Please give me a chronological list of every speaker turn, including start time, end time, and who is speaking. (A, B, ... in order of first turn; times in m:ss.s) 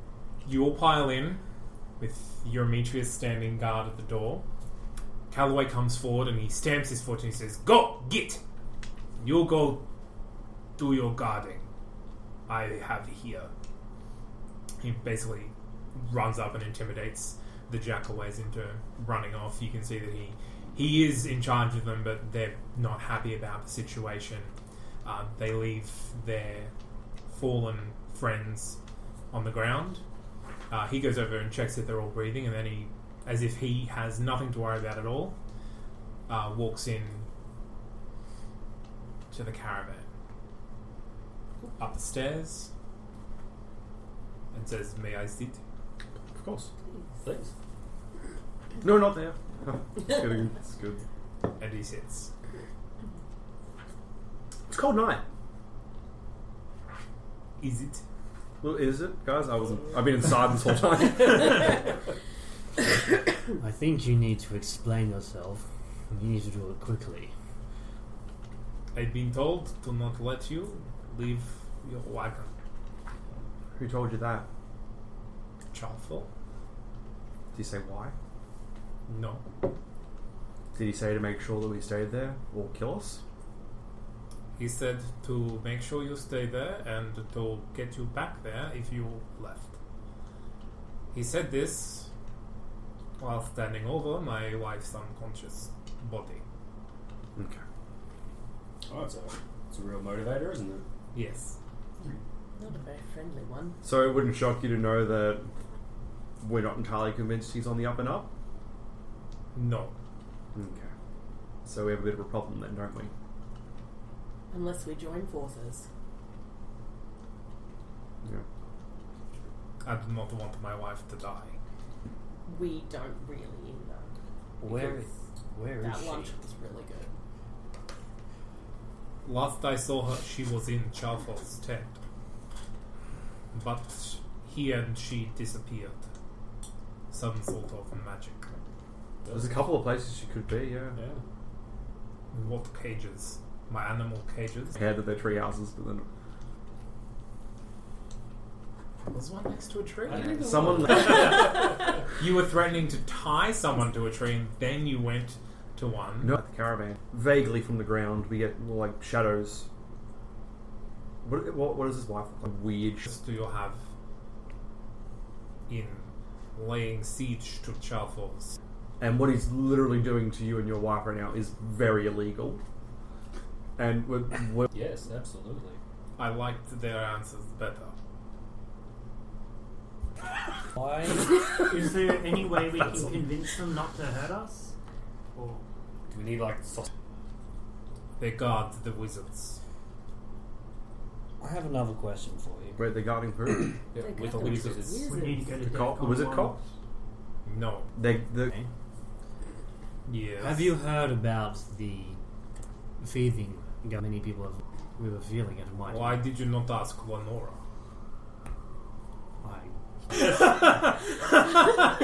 0:00.4-0:01.4 A
0:02.0-0:04.4 A
0:05.3-0:08.4 A
0:09.2-0:09.8 A
0:10.8-0:11.7 A
0:12.5-0:13.5 A
0:14.8-0:24.5 A
0:25.0-0:26.7 A
0:27.3-0:28.8 A
0:29.3-0:30.0 A
0:30.7-0:35.4 A
0:36.3-0:37.3 A
0:39.3-0:40.1 A
0:41.8-0:42.7 A
0:44.5-0:45.6 A
0:46.3-0:46.7 B
0:47.2-0:47.5 C
0:48.8-0:51.0 B
0:51.6-0:52.3 A
0:54.7-0:55.2 B
0:57.6-0:58.0 A
0:58.6-1:01.9 B
1:03.6-1:07.3 D
1:08.9-1:12.5 A
1:13.8-1:14.5 B
1:15.7-1:16.3 A
1:17.5-1:18.1 B
1:19.1-1:19.4 A
1:20.7-1:23.2 B
1:24.6-1:29.8 A
1:31.1-1:32.1 A
1:33.2-1:36.4 A
1:37.4-1:37.6 B
1:38.9-1:40.8 C
1:41.1-1:41.6 A
1:42.6-1:43.8 E
1:43.8-1:45.5 B
1:46.4-1:48.3 B
1:49.5-1:49.9 A
1:50.5-1:50.9 B
1:51.6-1:53.1 B
1:54.5-1:55.9 E
1:59.8-2:01.6 A
2:02.4-2:04.1 E
2:04.6-2:06.3 D
2:04.6-2:05.1 E
2:05.8-2:07.1 E
2:09.2-2:12.0 A
2:13.5-2:16.0 A
2:17.1-2:18.4 A
2:19.2-2:19.6 C
2:19.3-2:21.0 B
2:22.3-2:24.8 A
2:24.8-2:26.1 B
2:29.1-2:30.3 A
2:30.1-2:31.5 B
2:30.1-2:31.7 C
2:30.9-2:36.3 A
2:36.2-2:39.7 B
2:41.2-2:43.1 B
2:43.0-2:43.8 A
2:45.7-2:48.6 A
2:49.0-2:52.6 B
2:53.8-2:54.7 B
2:54.7-2:55.8 C
2:56.2-2:57.9 A
3:00.7-3:01.3 D
3:01.6-3:04.7 F
3:05.3-3:05.6 F
3:06.1-3:06.9 C
3:08.2-3:09.6 A
3:11.4-3:12.8 D
3:12.8-3:13.8 B
3:13.9-3:15.2 C
3:14.0-3:15.5 E
3:15.1-3:16.6 F
3:15.6-3:16.6 B
3:17.4-3:17.9 A
3:17.9-3:18.5 B
3:20.0-3:20.8 A
3:20.4-3:22.2 D
3:23.0-3:26.2 D
3:25.9-3:27.6 A
3:29.4-3:30.3 D
3:30.4-3:30.8 A